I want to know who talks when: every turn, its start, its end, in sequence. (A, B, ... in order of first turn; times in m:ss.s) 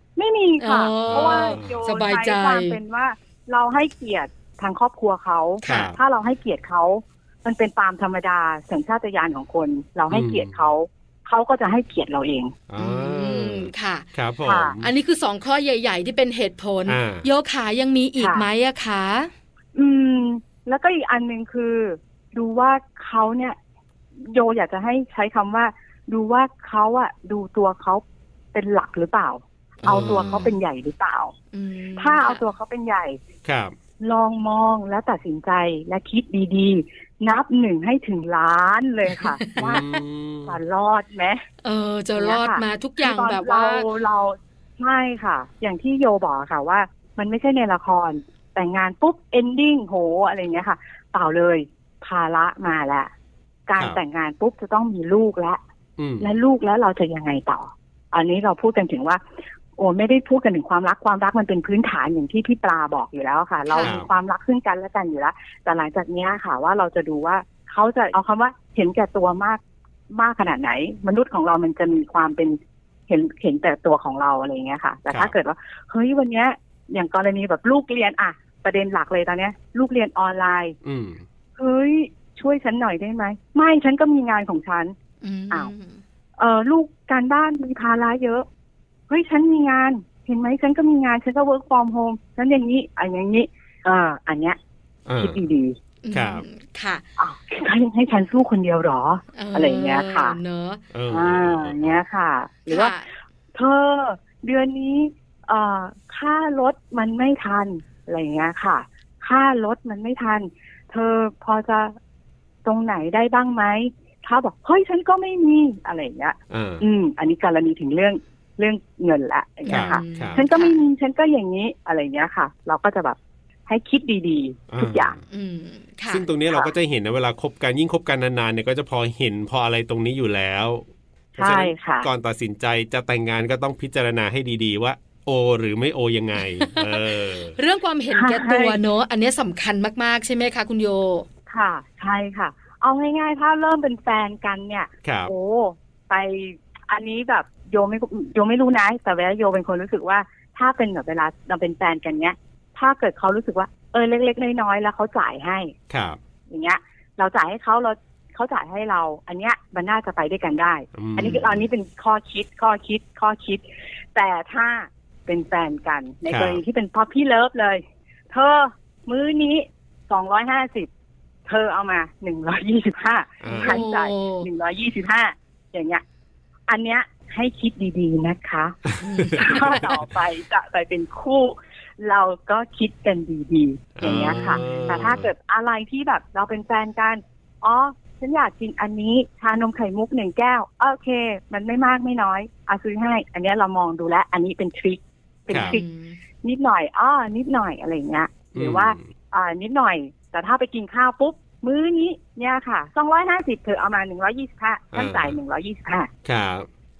0:00.2-0:12.6 A
0:00.6-0:02.8 B
0:01.1-0:01.8 C
0:05.6-0:05.9 B
0:05.6-0:06.0 C
0:10.1-0:10.6 C
0:12.7-0:14.9 C
0:12.8-0:14.0 B
0:14.4-0:14.8 A
0:14.8-0:19.3 B
0:16.9-0:17.2 C
0:18.2-0:18.5 A
0:19.8-0:23.6 A
0:24.2-0:28.0 A
0:28.5-0:31.3 A
0:29.8-0:30.5 B
0:29.8-0:30.5 C
0:31.5-0:32.4 B
0:32.0-0:33.2 A
0:33.4-0:33.8 C
0:34.0-0:39.8 A
0:39.1-0:39.6 B
0:39.6-0:40.6 C
0:40.4-0:41.4 A
0:41.6-0:43.9 B
0:42.2-0:53.1 A
0:53.7-0:55.6 A
0:56.0-0:56.3 C
0:56.2-0:59.2 A
0:59.8-1:20.8 A
1:03.7-1:03.9 B
1:03.8-1:04.1 C
1:20.8-1:21.2 C
1:21.6-1:24.9 A
1:25.2-1:26.0 B
1:26.4-1:28.4 A
1:29.1-1:34.6 A
1:35.1-1:35.4 C
1:35.2-1:35.8 A
1:36.0-1:37.0 B
1:36.1-1:36.4 C
1:37.2-1:40.4 A
1:39.4-1:40.8 B
1:40.9-1:42.0 C
1:41.1-1:42.9 A
1:42.7-1:43.1 B
1:43.5-1:51.9 A
1:52.6-2:05.1 A
1:56.5-1:56.9 C
1:59.6-2:00.8 B
1:59.7-2:00.4 C
2:04.7-2:05.2 C
2:05.3-2:06.3 B
2:06.1-2:10.8 C
2:11.4-2:12.1 A
2:11.4-2:17.6 C
2:16.5-2:21.2 B
2:18.1-2:18.8 A
2:21.5-2:35.7 A
2:25.0-2:25.3 C
2:35.9-2:36.2 C
2:36.5-2:43.6 A
2:40.9-2:41.6 C
2:44.1-2:50.9 A
2:46.3-2:46.6 C
2:51.5-2:56.0 A
2:53.4-2:53.8 C
2:53.5-2:54.5 B
2:56.7-2:58.8 A
2:59.0-2:59.9 B
2:59.1-2:59.9 C
2:59.4-3:15.9 A
3:04.0-3:05.3 C
3:04.0-3:05.2 B
3:15.5-3:15.8 C
3:15.5-3:16.2 B
3:16.4-3:26.1 A
3:18.5-3:19.0 C
3:24.9-3:25.3 C
3:26.2-3:26.7 C